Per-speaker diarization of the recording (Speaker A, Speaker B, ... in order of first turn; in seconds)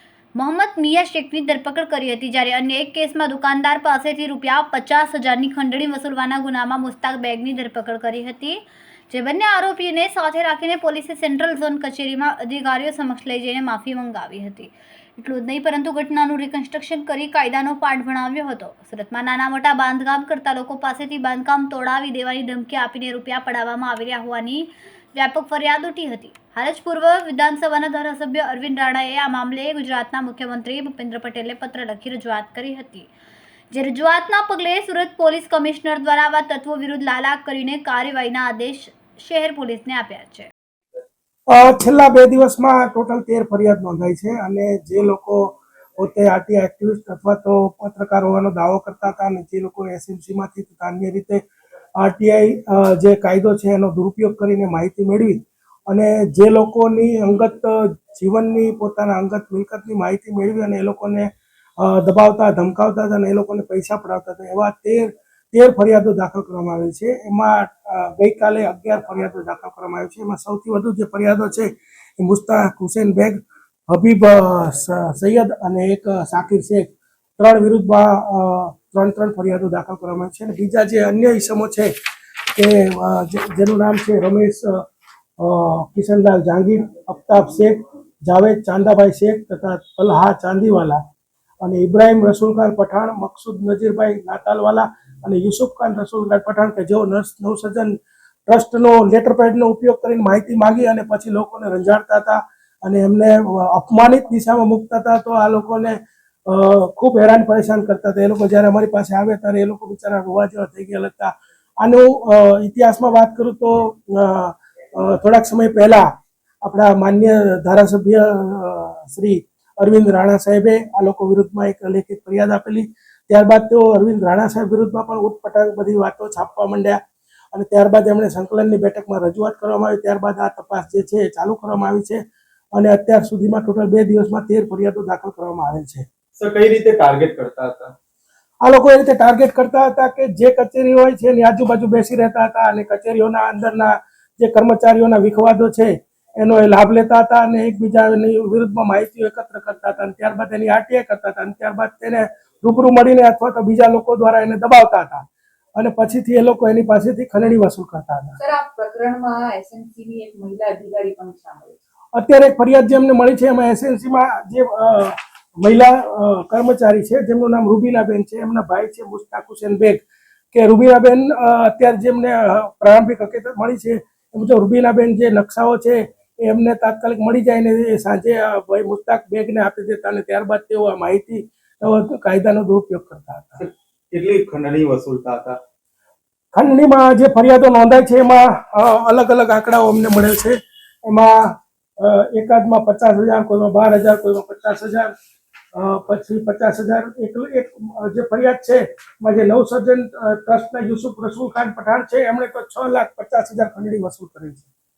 Speaker A: 0.3-33.1, 33.7-40.5
Speaker B: 41.5-51.4, 52.0-61.3, 61.8-73.4, 73.9-81.9, 82.5-84.8, 85.4-91.0, 91.6-98.0, 98.5-116.0, 116.6-127.0, 127.5-132.2, 132.7-136.1, 138.6-155.2, 155.8-158.4, 162.1-183.6, 186.5-191.4, 192.0-195.1, 195.7-204.7
Speaker C: 136.4-137.9, 183.6-185.6
Speaker D: 158.4-161.8